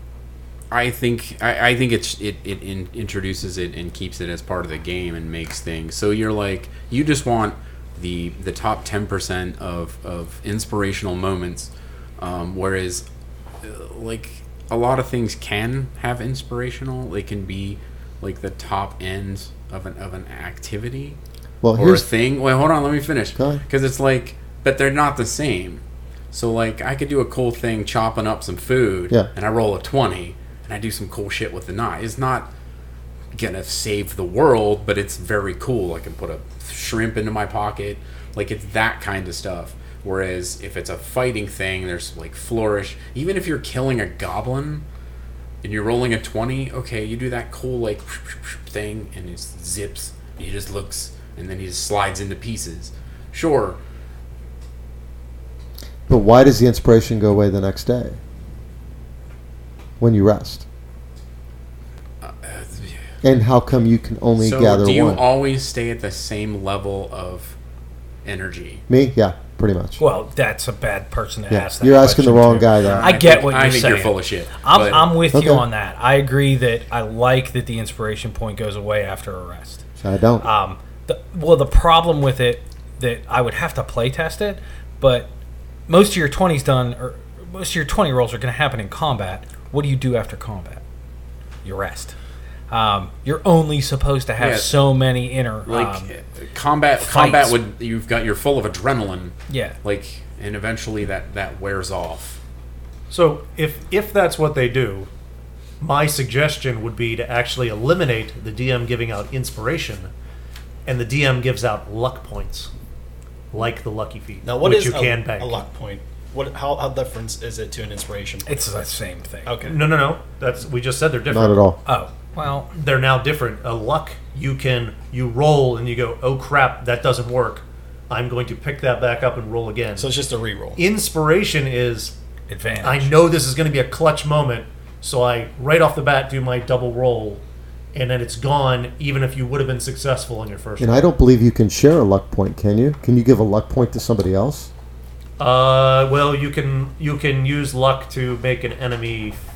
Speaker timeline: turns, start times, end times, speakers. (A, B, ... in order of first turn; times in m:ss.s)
0:00.7-0:13.0 A
0:13.6-0:21.2 A
0:21.6-0:22.0 B
0:21.8-0:32.5 A
0:23.4-0:23.6 B
0:33.3-0:44.8 A
0:45.6-0:53.8 A
0:56.1-0:58.2 B
1:00.0-1:00.6 B
1:02.2-1:03.0 A
1:03.2-1:05.2 B
1:04.4-1:07.6 A
1:08.2-1:08.8 A
1:08.9-1:10.0 B
1:10.0-1:19.8 C
1:11.5-1:13.1 B
1:12.8-1:15.2 A
1:15.3-1:15.6 B
1:20.0-1:20.5 B
1:20.4-1:25.3 C
1:25.9-1:30.8 C
1:31.6-1:32.2 C
1:32.7-1:36.1 C
1:34.4-1:34.9 A
1:35.7-1:42.4 A
1:37.0-1:37.6 C
1:39.5-1:39.8 C
1:43.1-1:45.1 D
1:45.8-1:50.1 D
1:50.9-1:52.7 D
1:53.5-1:55.6 D
1:54.4-1:58.7 E
1:58.4-1:59.7 C
1:59.5-1:59.8 E
1:59.7-2:01.6 D
2:01.3-2:01.8 B
2:01.9-2:02.7 C
2:02.7-2:10.1 D
2:10.0-2:10.8 E
2:10.8-2:12.2 D
2:12.5-2:13.2 C
2:12.8-2:17.4 D
2:17.9-2:21.0 D
2:20.8-2:24.7 B
2:25.4-2:29.4 D